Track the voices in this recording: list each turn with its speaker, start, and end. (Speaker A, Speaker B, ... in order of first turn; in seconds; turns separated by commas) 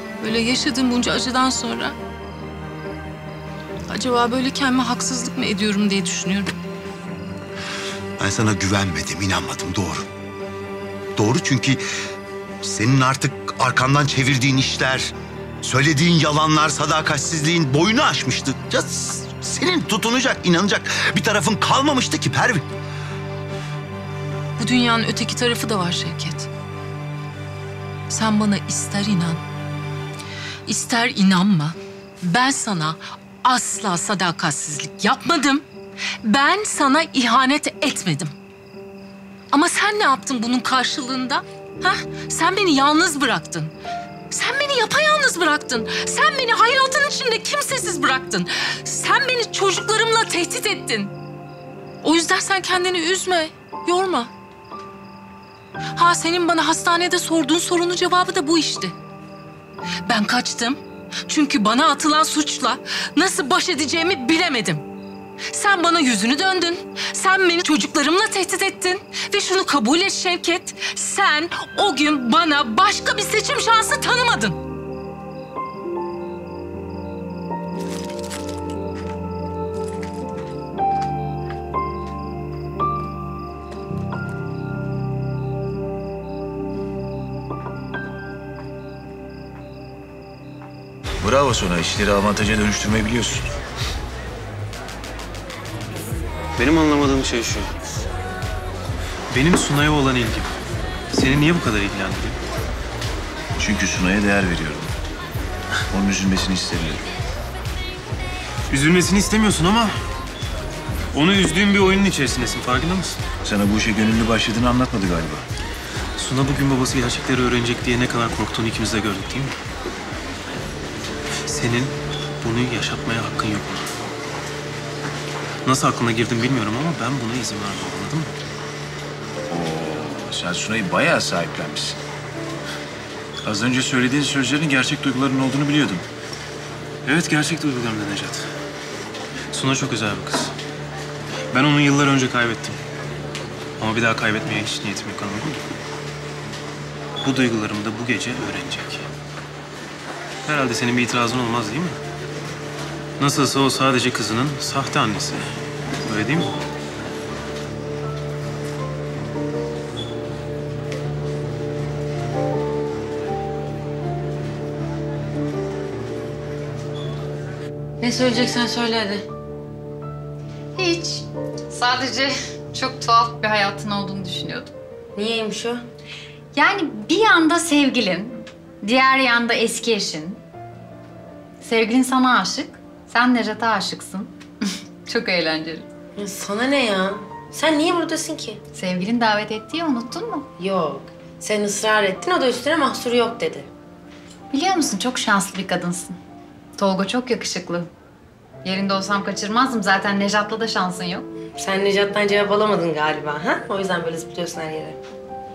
Speaker A: 0.2-2.0, Speaker A: 3.9-6.5, Speaker B: 8.2-10.1, Speaker B: 11.2-11.8, Speaker B: 12.6-22.7, Speaker A: 24.6-26.5, Speaker A: 28.1-29.4, Speaker A: 30.7-35.6, Speaker A: 36.2-38.3, Speaker A: 39.5-43.7, Speaker A: 44.3-51.1, Speaker A: 52.0-54.3, Speaker A: 56.0-58.9, Speaker A: 60.1-64.8, Speaker A: 65.5-74.6, Speaker C: 91.2-93.5, Speaker D: 96.6-97.7, Speaker D: 99.3-100.5, Speaker D: 101.1-102.4, Speaker C: 103.6-104.9, Speaker C: 105.9-107.1, Speaker D: 108.7-110.0, Speaker D: 111.1-113.2, Speaker C: 113.4-115.5, Speaker D: 116.2-119.5, Speaker D: 121.5-123.9, Speaker D: 125.7-128.3, Speaker C: 129.5-132.0, Speaker C: 133.4-136.1, Speaker D: 137.1-138.5, Speaker D: 139.5-140.5, Speaker D: 141.5-142.8, Speaker D: 143.8-145.6, Speaker D: 147.2-149.1, Speaker D: 150.5-152.0, Speaker D: 153.2-155.5, Speaker D: 156.0-156.5, Speaker E: 168.0-169.2, Speaker F: 170.8-174.7, Speaker E: 175.2-175.8, Speaker F: 176.5-180.4, Speaker F: 181.6-184.3, Speaker F: 185.1-185.9, Speaker E: 186.2-188.6, Speaker F: 188.7-190.5, Speaker E: 190.6-193.7, Speaker F: 194.5-196.2, Speaker F: 196.8-197.9, Speaker F: 198.6-201.3, Speaker E: 201.6-205.0